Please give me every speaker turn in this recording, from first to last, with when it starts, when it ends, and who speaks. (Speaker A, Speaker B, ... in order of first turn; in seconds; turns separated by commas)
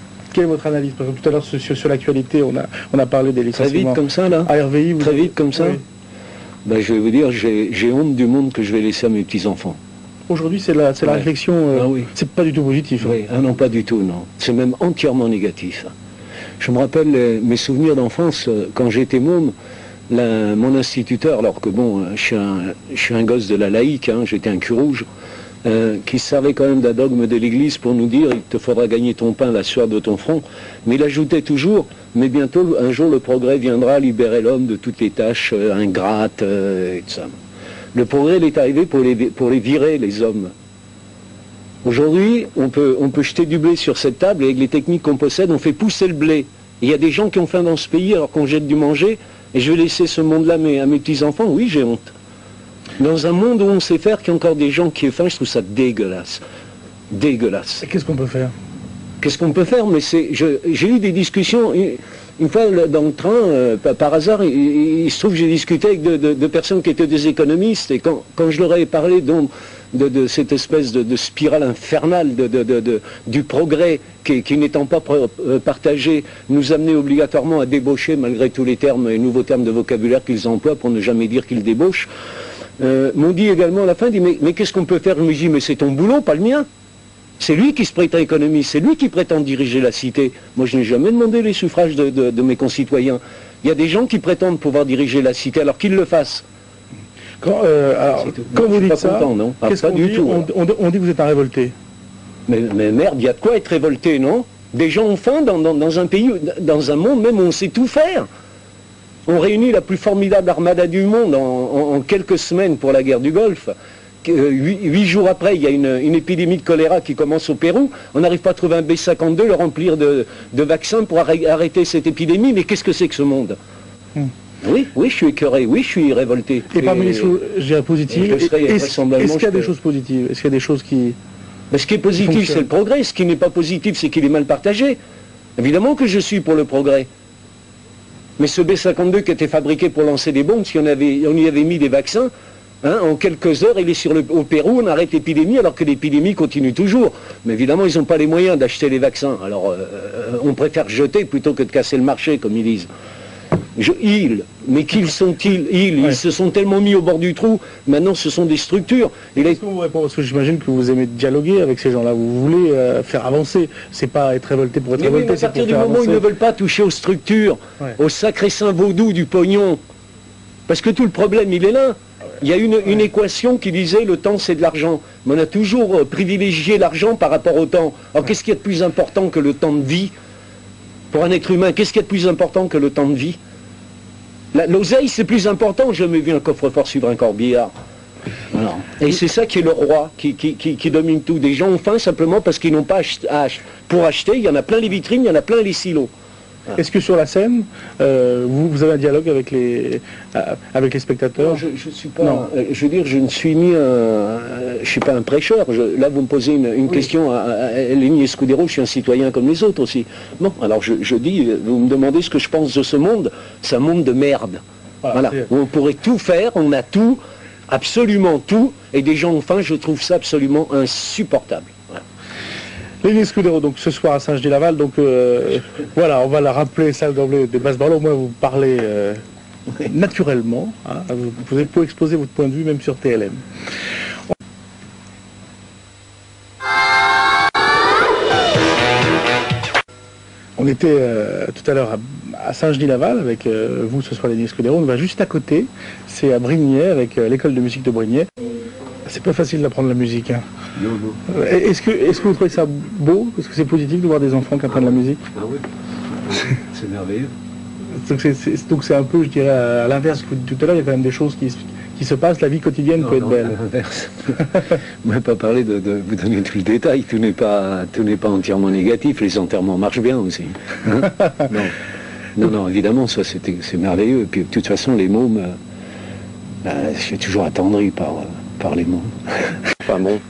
Speaker A: 0.3-5.8, Speaker B: 3.5-5.8, Speaker B: 6.6-9.8, Speaker A: 10.3-13.1, Speaker B: 11.0-12.1, Speaker B: 13.0-15.9, Speaker B: 16.6-19.5, Speaker B: 20.1-25.1, Speaker B: 25.6-37.3, Speaker B: 37.9-40.5, Speaker B: 41.8-52.1, Speaker B: 53.0-56.4, Speaker B: 57.1-57.8, Speaker A: 57.8-58.5, Speaker B: 59.2-82.1, Speaker B: 82.8-86.7, Speaker B: 87.4-96.4, Speaker A: 97.4-101.7, Speaker B: 98.2-100.5, Speaker B: 102.5-108.3, Speaker B: 109.3-123.6, Speaker B: 124.6-127.3, Speaker A: 126.7-131.2, Speaker B: 128.1-129.7, Speaker B: 131.7-135.0, Speaker A: 132.2-132.6, Speaker B: 135.6-137.1, Speaker B: 138.4-142.3, Speaker B: 142.8-152.9, Speaker B: 153.8-159.6, Speaker A: 159.4-166.2, Speaker B: 165.0-169.8, Speaker B: 170.7-180.1, Speaker B: 181.1-183.4, Speaker B: 184.5-187.7, Speaker B: 188.5-196.1, Speaker A: 196.7-201.6, Speaker B: 201.4-222.0, Speaker A: 202.2-202.4, Speaker A: 223.0-229.2, Speaker A: 229.7-233.4, Speaker A: 240.6-248.3, Speaker A: 249.0-250.4, Speaker B: 250.8-251.2, Speaker A: 251.3-255.2, Speaker B: 255.3-255.6, Speaker B: 256.2-257.3, Speaker A: 257.9-263.6, Speaker B: 263.0-271.7, Speaker B: 272.4-275.5, Speaker B: 276.6-280.2